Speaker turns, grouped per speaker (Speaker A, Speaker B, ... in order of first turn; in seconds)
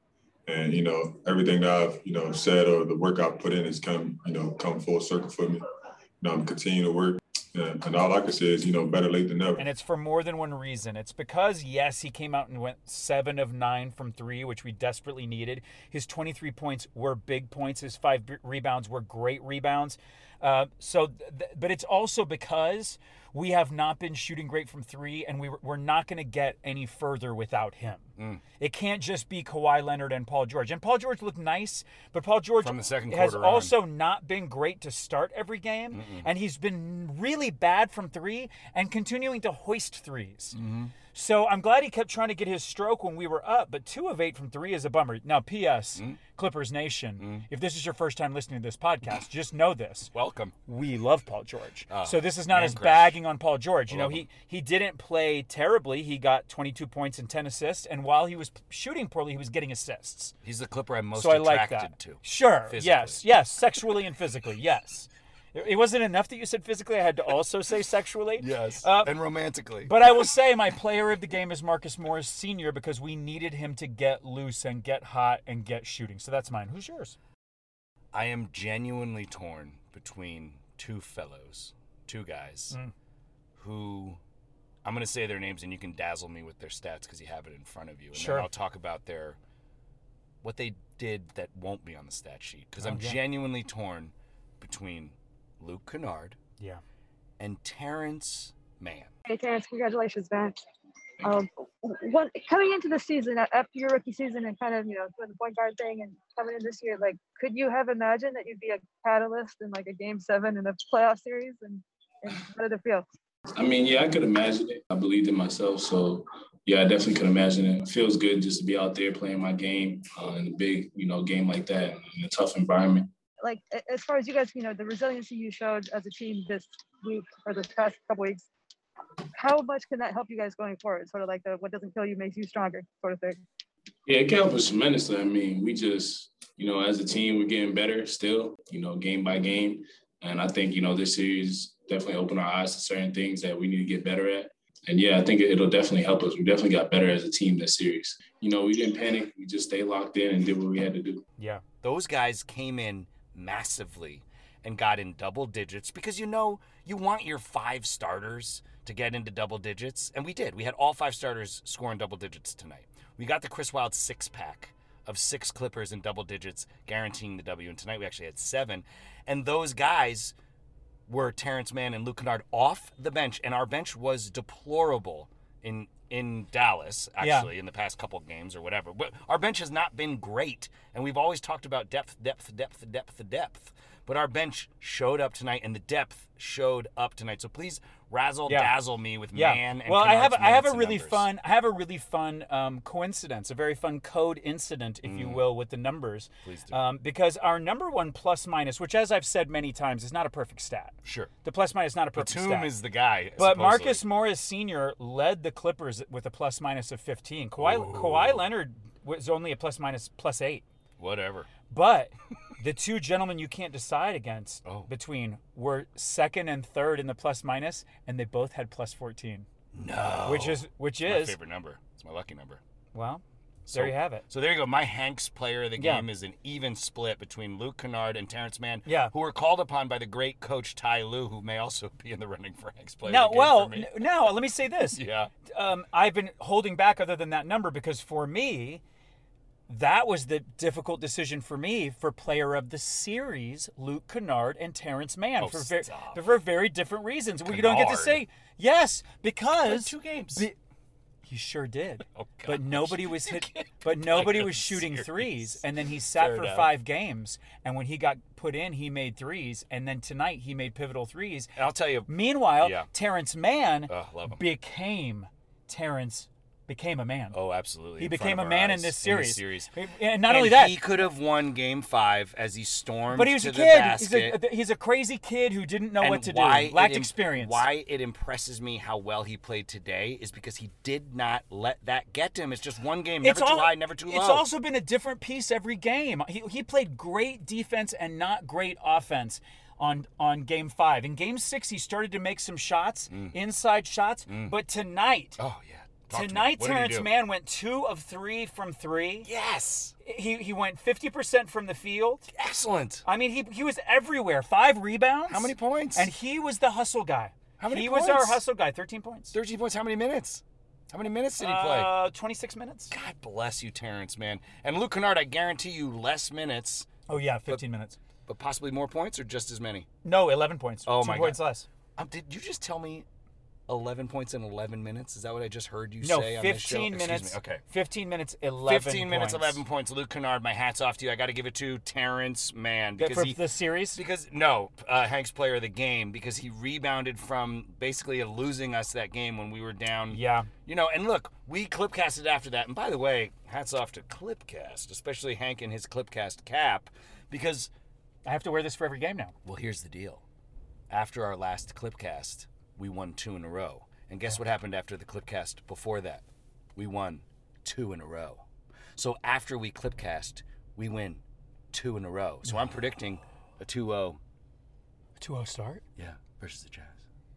Speaker A: 0.5-5.6, 6.2-9.7
Speaker B: 9.6-40.6, 41.1-50.1, 50.6-60.3, 61.1-69.2, 69.8-77.2, 88.1-88.5, 92.8-93.2, 151.4-151.6, 177.2-177.5, 188.4-188.8, 189.3-202.7, 203.4-210.6, 211.7-219.4, 220.2-221.4, 222.9-224.2, 225.8-226.1, 228.8-229.1, 233.0-238.8, 239.7-250.6, 251.2-261.5, 262.1-267.4, 268.0-270.9, 273.1-277.7, 283.2-295.4, 296.1-299.3, 300.0-302.3, 303.0-309.4, 311.4-312.9, 317.1-318.0, 320.0-321.7, 326.0-329.6, 333.0-334.0, 340.1-340.5, 348.2-349.3, 362.4-362.7, 365.2-365.8
Speaker C: 28.2-28.4, 32.6-33.8, 35.9-36.3, 40.5-40.9, 47.2-47.5, 50.1-50.5, 51.9-53.2, 53.9-54.3, 60.4-63.2, 68.4-69.9, 78.1-82.8, 83.6-84.2, 84.8-89.4, 90.4-96.4, 97.4-99.1, 151.8-170.3, 171.1-191.3, 195.0-195.5, 196.4-196.8, 201.0-201.3, 202.1-204.1, 207.6-208.5, 211.0-211.5, 214.6-214.9, 219.7-222.6, 223.7-234.2, 234.9-235.3, 245.4-246.2, 247.4-248.2, 249.6-250.5, 252.1-256.7, 261.6-262.9, 263.9-264.4, 267.3-269.7, 270.2-274.4, 276.0-284.5, 293.1-293.4, 294.3-294.6, 295.4-297.1, 299.2-299.9, 302.3-303.0, 305.2-306.1, 307.6-308.4, 309.3-311.9, 312.9-317.6, 318.3-319.9, 320.9-323.0, 323.7-327.6, 328.6-347.7, 349.4-350.2, 350.9-356.2, 356.8-358.4, 358.9-364.2, 365.9-367.0
Speaker D: 99.2-100.6, 101.2-113.0, 123.4-128.5, 129.3-133.4
Speaker E: 113.5-123.1, 134.1-151.2